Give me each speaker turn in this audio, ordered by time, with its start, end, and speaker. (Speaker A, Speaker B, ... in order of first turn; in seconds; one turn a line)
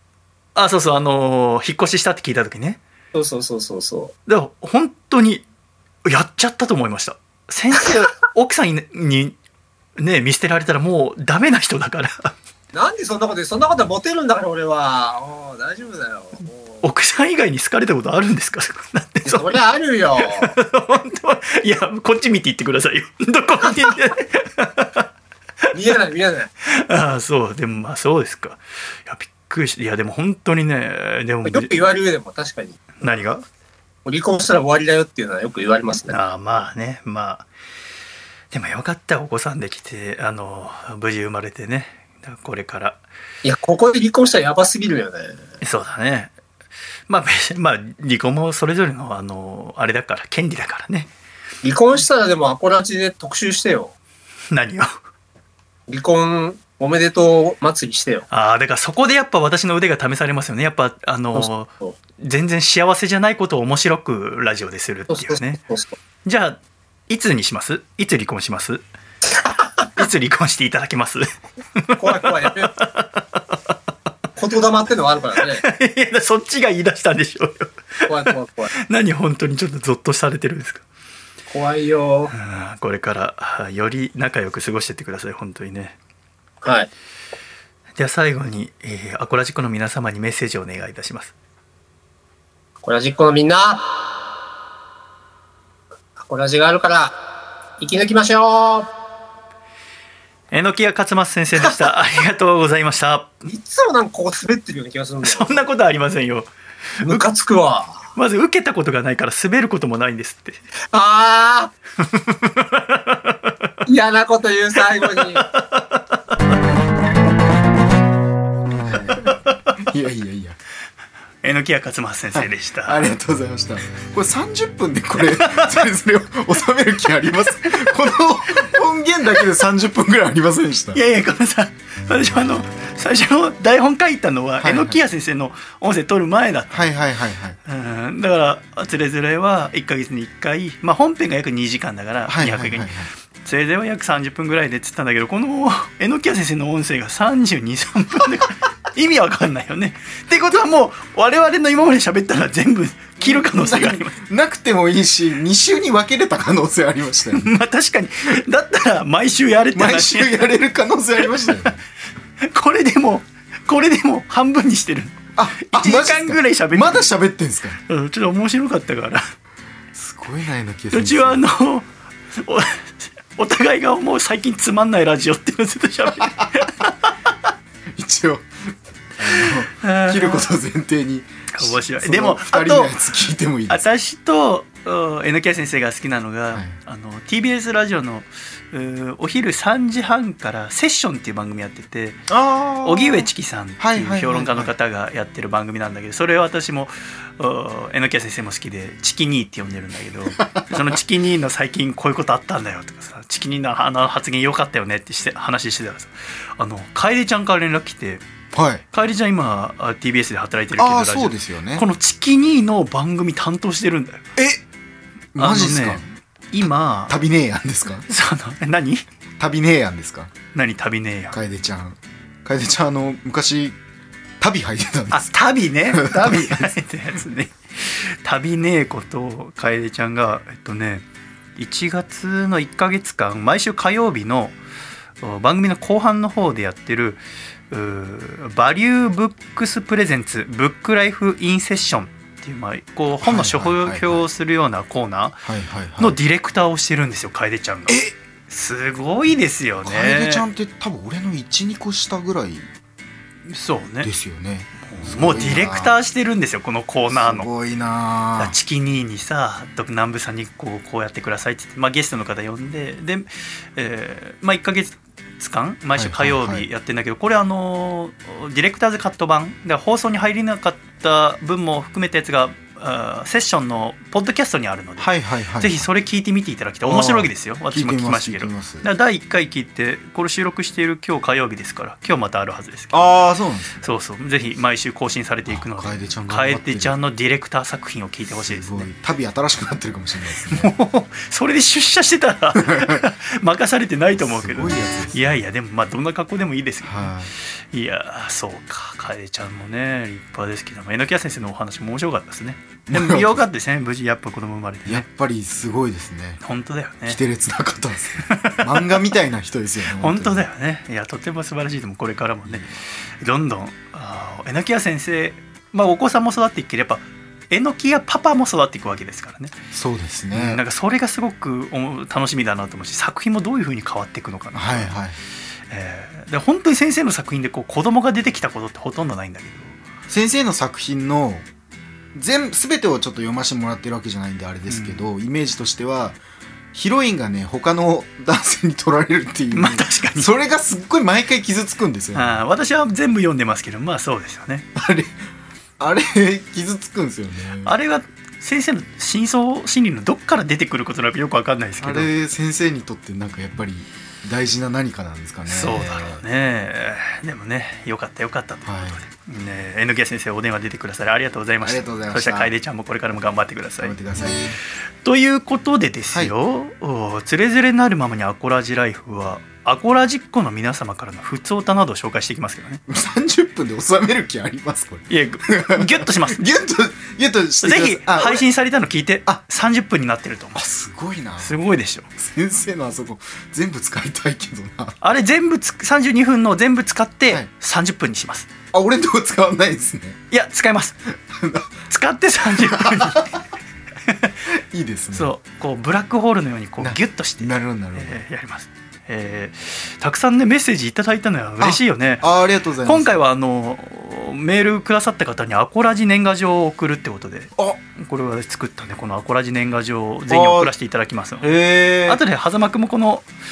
Speaker A: 0.6-2.8
Speaker B: 3.1-4.1
Speaker A: 4.3-5.5
Speaker A: 6.0-9.4
Speaker A: 10.0-12.3
Speaker B: 12.7-16.8
Speaker A: 16.8-19.6
Speaker B: 19.2-20.5
Speaker A: 20.2-25.1
Speaker B: 25.7-26.5
Speaker A: 26.6-31.9
Speaker B: 31.5-33.0
Speaker A: 33.0-33.4
Speaker B: 34.0-36.2
Speaker A: 36.1-37.5
Speaker A: 38.5-43.0
Speaker B: 43.4-45.4
Speaker A: 45.6-46.3
Speaker A: 47.1-51.1
Speaker B: 51.6-53.9
Speaker A: 54.5-54.9
Speaker B: 55.9-58.3
Speaker A: 58.3-65.6
Speaker B: 61.4-62.0
Speaker B: 65.1-65.9
Speaker A: 66.2-68.8
Speaker B: 69.3-69.9
Speaker A: 70.0-73.6
Speaker B: 72.0-72.7
Speaker B: 74.4-75.6
Speaker A: 75.4-80.8
Speaker B: 78.1-78.7
Speaker B: 81.5-82.3
Speaker A: 82.3-86.0
Speaker B: 86.6-86.9
Speaker A: 88.0-91.3
Speaker B: 92.8-94.1
Speaker B: 96.2-97.2
Speaker B: 97.8-98.9
Speaker A: 100.5-103.3
Speaker B: 103.5-105.7
Speaker A: 105.2-107.2
Speaker B: 107.0-108.1
Speaker A: 108.2-110.6
Speaker B: 110.9-111.7
Speaker A: 112.0-113.7
Speaker B: 113.9-115.5
Speaker A: 115.0-116.4
Speaker C: 118.7-120.6
Speaker A: 119.2-119.8
Speaker A: 121.4-123.1
Speaker C: 122.3-131.0
Speaker A: 125.3-125.9
Speaker A: 130.9-136.9
Speaker C: 134.6-135.0
Speaker C: 136.7-137.6
Speaker A: 137.7-142.9
Speaker C: 142.3-143.1
Speaker A: 143.4-154.2
Speaker C: 153.2-157.5
Speaker A: 157.3-160.5
Speaker C: 159.7-161.8
Speaker A: 162.4-167.1
Speaker C: 165.4-167.8
Speaker A: 167.9-169.3
Speaker C: 169.9-171.4
Speaker A: 170.9-177.3
Speaker C: 176.2-176.6
Speaker C: 177.9-183.8
Speaker A: 179.3-180.5
Speaker A: 181.5-183.0
Speaker A: 183.7-192.3
Speaker C: 192.3-194.7
Speaker A: 192.8-208.2
Speaker C: 208.5-208.8
Speaker A: 208.9-214.3
Speaker C: 210.8-211.9
Speaker C: 214.4-214.6
Speaker C: 215.3-216.0
Speaker A: 215.4-217.2
Speaker C: 217.1-218.1
Speaker A: 218.1-219.0
Speaker C: 219.4-220.3
Speaker A: 220.5-221.4
Speaker C: 221.3-223.8
Speaker C: 224.4-225.3
Speaker A: 225.1-231.1
Speaker C: 225.9-226.8
Speaker A: 231.6-234.6
Speaker A: 235.2-245.4
Speaker C: 243.2-244.3
Speaker C: 245.4-246.2
Speaker A: 246.0-250.4
Speaker C: 247.9-248.1
Speaker C: 249.8-252.7
Speaker A: 253.5-254.1
Speaker C: 254.0-255.9
Speaker A: 254.8-257.5
Speaker C: 257.1-258.6
Speaker A: 258.4-283.0
Speaker C: 265.9-266.7
Speaker C: 275.0-275.9
Speaker C: 276.8-278.9
Speaker C: 282.9-283.8
Speaker A: 283.8-288.9
Speaker C: 285.5-287.0
Speaker C: 288.3-290.7
Speaker A: 290.5-305.1
Speaker C: 292.6-293.1
Speaker C: 294.2-295.4
Speaker C: 296.8-297.3
Speaker C: 302.9-303.4
Speaker C: 304.9-306.4
Speaker A: 306.4-307.2
Speaker C: 307.1-310.4
Speaker A: 308.2-309.0
Speaker A: 310.0-312.6
Speaker C: 312.5-312.7
Speaker A: 313.2-319.6
Speaker C: 319.7-320.6
Speaker A: 320.3-324.9
Speaker C: 324.5-325.2
Speaker A: 325.7-329.8
Speaker C: 330.1-331.5
Speaker C: 332.1-336.2
Speaker A: 334.7-335.0
Speaker C: 336.7-342.4
Speaker A: 339.5-340.3
Speaker A: 342.1-344.7
Speaker C: 344.8-345.2
Speaker C: 345.8-347.8
Speaker A: 347.6-352.1
Speaker C: 351.8-356.2
Speaker A: 355.5-364.0
Speaker C: 358.6-359.0
Speaker C: 361.6-362.5
Speaker C: 363.8-364.6
Speaker A: 365.0-372.8
Speaker C: 372.9-378.4
Speaker A: 375.1-376.5
Speaker A: 377.6-380.6
Speaker C: 380.6-381.6
Speaker A: 381.4-382.1
Speaker C: 382.2-385.0
Speaker A: 385.0-388.5
Speaker C: 388.7-390.2
Speaker A: 390.3-391.0
Speaker C: 391.3-391.7
Speaker A: 391.9-393.4
Speaker C: 392.5-393.4
Speaker A: 394.1-394.3
Speaker C: 394.5-395.3
Speaker A: 395.1-402.3
Speaker C: 396.8-398.2
Speaker C: 401.6-403.2
Speaker A: 402.9-411.5
Speaker C: 410.3-410.7
Speaker C: 411.4-412.2
Speaker A: 412.1-413.3